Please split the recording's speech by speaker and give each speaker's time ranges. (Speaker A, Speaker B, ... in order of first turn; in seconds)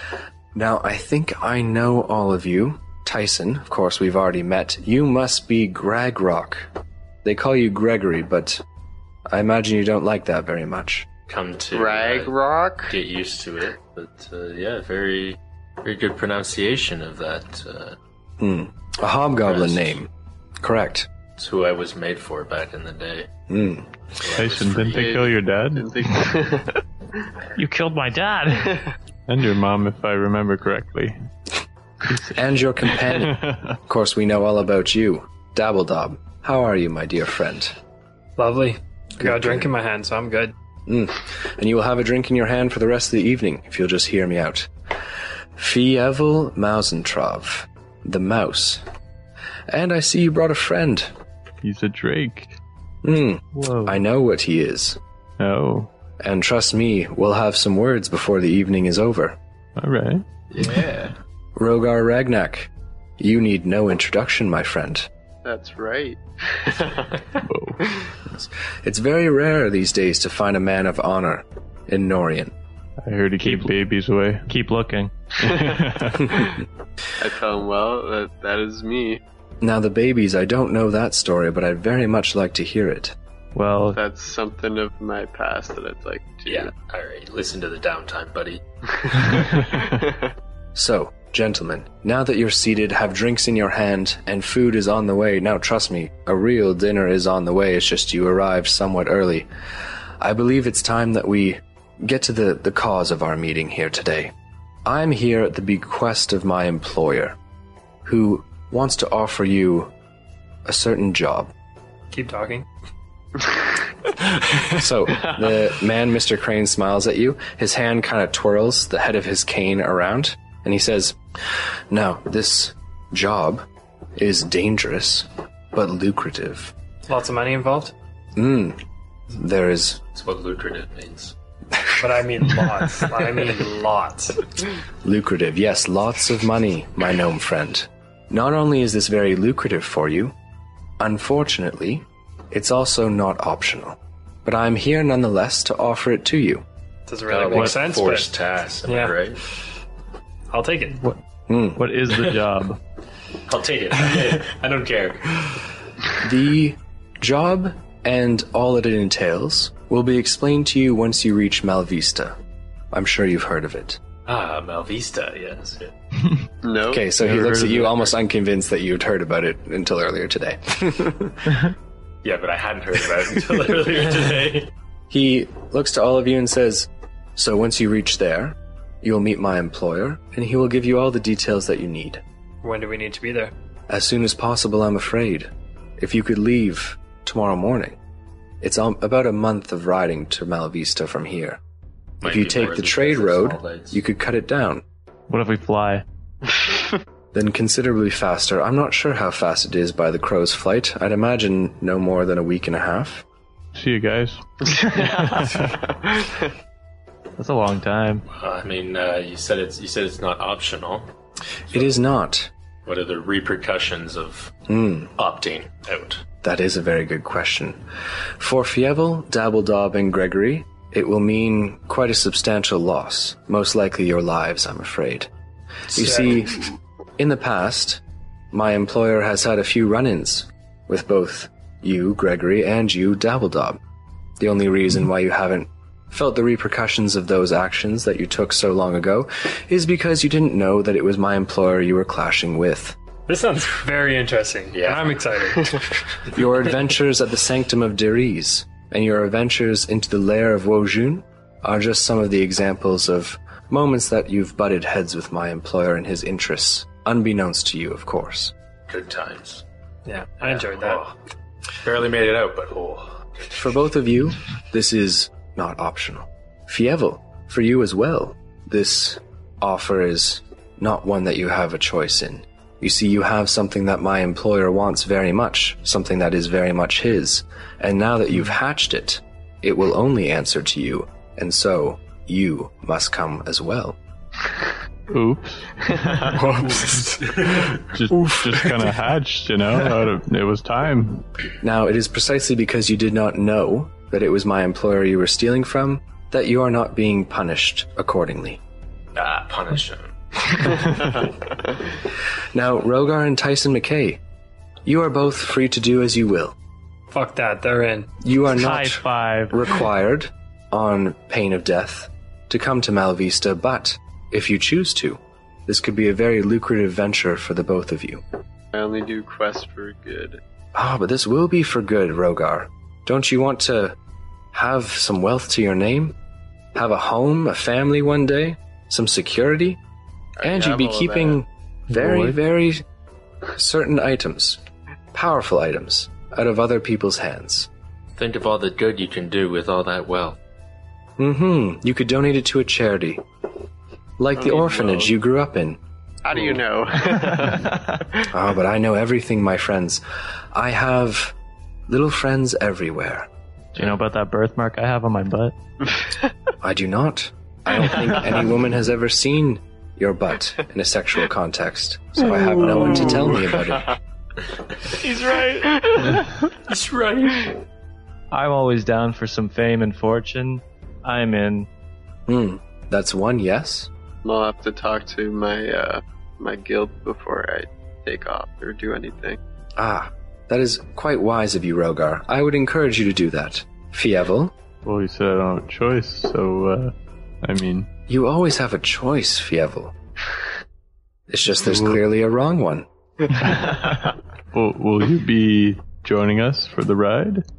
Speaker A: 0.5-6.7, 7.2-8.6, 9.3-11.1, 18.4-20.1, 20.6-21.1, 23.5-23.9, 32.2-37.8, 39.2-39.7, 40.9-44.7, 45.6-48.8, 49.7-51.1, 53.0-55.0, 56.2-59.4, 61.5-65.1, 68.3-72.5, 79.6-83.2, 90.7-99.5, 100.2-104.3, 104.8-107.4, 108.0-109.9, 110.7-111.5, 114.7-123.7, 124.2-126.7, 128.3-128.8, 129.3-130.0, 135.0-140.3, 141.0-146.6, 151.5-151.8, 156.2-162.3, 162.9-164.0, 166.9-171.6, 175.1-182.2, 183.9-188.0, 188.6-191.6, 192.2-194.8, 197.3-203.2, 211.7-212.5, 214.7-215.1, 216.4-217.8, 218.4-225.3, 225.9-228.0, 228.5-233.8, 234.4-243.0, 246.3-258.5, 263.5-284.0, 291.6-298.6, 302.5-304.2, 304.9-306.5, 308.2-318.2, 320.7-323.9, 324.5-326.1, 326.7-329.8, 330.4-332.8, 333.5-334.6, 335.1-337.7, 341.2-343.2, 344.2-345.8, 348.3-351.3, 351.9-353.3, 356.6-363.9, 372.3-373.9, 379.8-384.5, 388.1-389.9, 391.3-392.9
Speaker B: 11.3-12.3, 12.9-18.0, 19.4-20.0, 21.4-23.3, 24.2-25.2, 60.5-61.1, 86.5-88.6, 130.1-131.3, 147.3-149.4, 153.4-155.6, 164.3-165.9, 172.2-174.7, 192.2-194.0, 208.3-211.1, 212.8-214.5, 215.2-216.2, 244.7-245.2, 258.9-259.6, 260.4-261.1, 261.8-263.8, 299.1-300.9, 338.1-340.4, 366.7-367.5
Speaker C: 11.7-12.9, 24.9-26.8, 65.4-67.2, 75.6-76.6, 77.2-79.2, 83.9-86.7, 89.0-90.3, 166.6-167.5, 204.9-206.4, 318.7-320.4, 330.4-331.4, 344.4-345.1, 346.2-348.3, 362.8-363.9, 374.2-379.4
Speaker D: 24.4-26.0, 29.3-31.1, 33.0-33.8, 51.6-52.5, 55.4-55.9, 59.8-60.2, 67.5-67.8, 73.0-74.5, 75.4-76.4, 203.7-205.7, 285.1-286.4, 287.7-291.2, 384.8-387.9, 391.7-392.0, 393.3-397.4
Speaker E: 27.6-28.8, 53.5-54.0, 73.4-73.8, 74.5-75.3, 83.5-84.0, 151.7-152.8, 195.3-196.0, 207.4-208.2, 308.5-309.5, 353.8-355.5, 364.9-366.5, 368.3-371.7
Speaker F: 38.4-40.5, 112.1-112.7, 127.1-127.9, 131.9-134.4, 147.1-148.3, 148.8-149.1, 150.5-151.0, 182.6-183.5, 243.3-245.8, 260.1-261.1, 286.2-287.6, 307.1-308.1